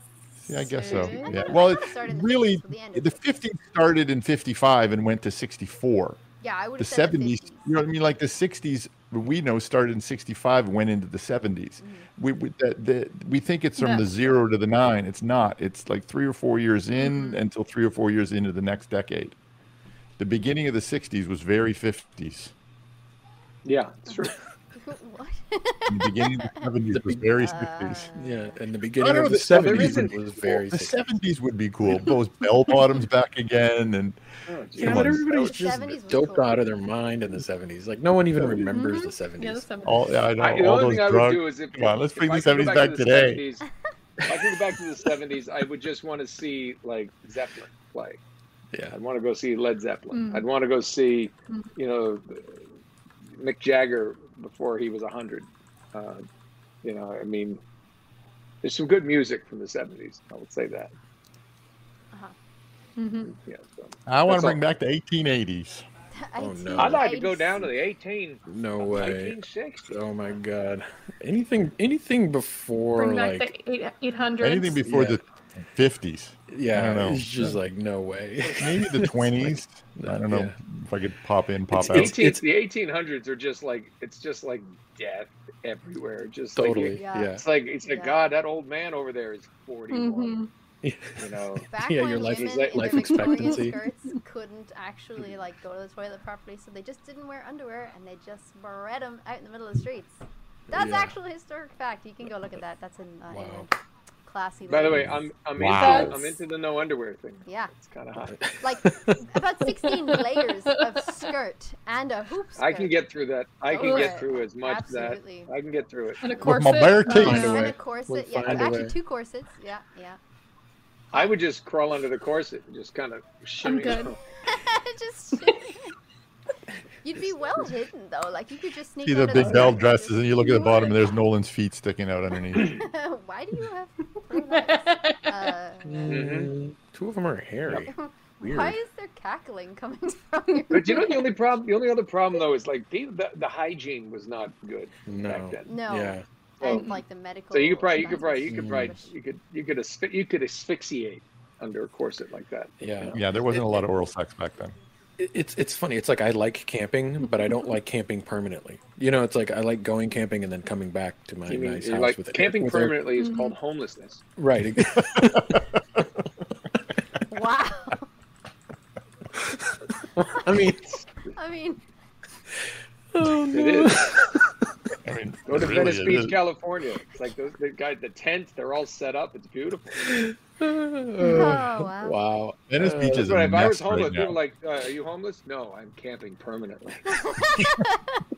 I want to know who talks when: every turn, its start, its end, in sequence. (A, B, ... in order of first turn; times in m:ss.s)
0:00.4-0:06.2 A
0:00.5-0:01.6 B
0:00.9-0:03.2 C
0:06.4-0:07.8 C
0:06.8-0:19.4 A
0:11.8-0:12.1 C
0:13.8-0:14.1 B
0:17.0-0:17.4 C
0:20.2-0:22.5 A
0:23.6-0:24.4 D
0:24.7-0:26.7 C
0:25.9-0:28.1 A
0:26.9-0:27.2 E
0:27.4-0:28.6 C
0:28.2-0:31.0 E
0:29.0-0:34.2 A
0:29.5-0:30.2 D
0:34.5-0:35.2 D
0:34.8-0:35.6 A
0:34.8-0:39.7 E
0:35.4-0:36.7 C
0:38.4-0:38.7 A
0:38.7-0:40.1 B
0:39.8-0:43.4 A
0:40.4-0:43.7 D
0:44.3-0:48.2 D
0:48.9-0:52.5 D
0:50.1-0:50.5 B
0:53.4-0:56.2 D
0:56.8-0:57.6 D
0:58.6-1:00.9 D
1:03.0-1:03.4 B
1:03.3-1:04.6 D
1:04.1-1:05.8 A
1:06.2-1:07.7 C
1:06.4-1:07.0 E
1:06.8-1:09.9 D
1:08.5-1:13.5 E
1:13.0-1:14.8 B
1:14.4-1:17.6 A
1:14.8-1:15.2 E
1:16.5-1:20.6 E
1:18.6-1:22.2 A
1:21.7-1:22.4 E
1:21.8-1:30.4 D
1:26.6-1:27.4 E
1:27.0-1:28.3 C
1:29.9-1:30.5 B
1:30.8-1:33.8 E
1:31.2-1:31.7 D
1:31.7-1:43.7 C
1:32.2-1:33.3 D
1:33.3-1:33.8 B
1:40.7-1:41.1 E
1:43.3-1:43.7 E
1:44.3-1:45.2 C
1:44.7-1:48.4 D
1:44.9-1:46.3 A
1:45.8-1:46.2 B
1:47.5-1:47.7 C
1:48.3-1:49.2 E
1:48.6-1:53.0 C
1:49.9-1:51.3 B
1:52.6-1:56.2 D
1:53.7-1:55.5 C
1:53.8-1:54.2 B
1:56.2-1:57.7 B
1:56.4-1:57.7 A
1:57.0-1:59.0 E
1:57.3-2:00.2 C
2:01.1-2:04.2 D
2:03.6-2:04.2 B
2:04.5-2:06.0 C
2:07.0-2:11.1 C
2:09.0-2:12.8 A
2:12.6-2:16.2 C
2:14.3-2:15.5 B
2:15.9-2:18.8 E
2:16.1-2:16.5 D
2:17.8-2:21.3 C
2:20.7-2:25.7 D
2:25.1-2:26.2 E
2:25.7-2:29.1 C
2:26.6-2:26.9 D
2:26.7-2:27.0 B
2:27.5-2:33.2 D
2:28.5-2:29.0 E
2:32.8-2:33.8 E
2:33.1-2:34.8 A
2:35.2-2:43.1 E
2:41.5-2:44.2 D
2:43.2-2:43.6 B
2:44.4-2:46.0 E
2:47.3-2:48.1 C
2:49.4-2:51.0 E
2:51.3-2:51.8 C
2:53.1-2:54.5 E
2:53.5-2:54.2 D
2:55.0-2:56.4 A
2:55.5-3:00.2 D
3:00.1-3:03.3 E
3:01.2-3:02.2 C
3:01.2-3:01.6 B
3:02.7-3:04.4 A
3:03.1-3:07.3 D
3:07.1-3:08.2 C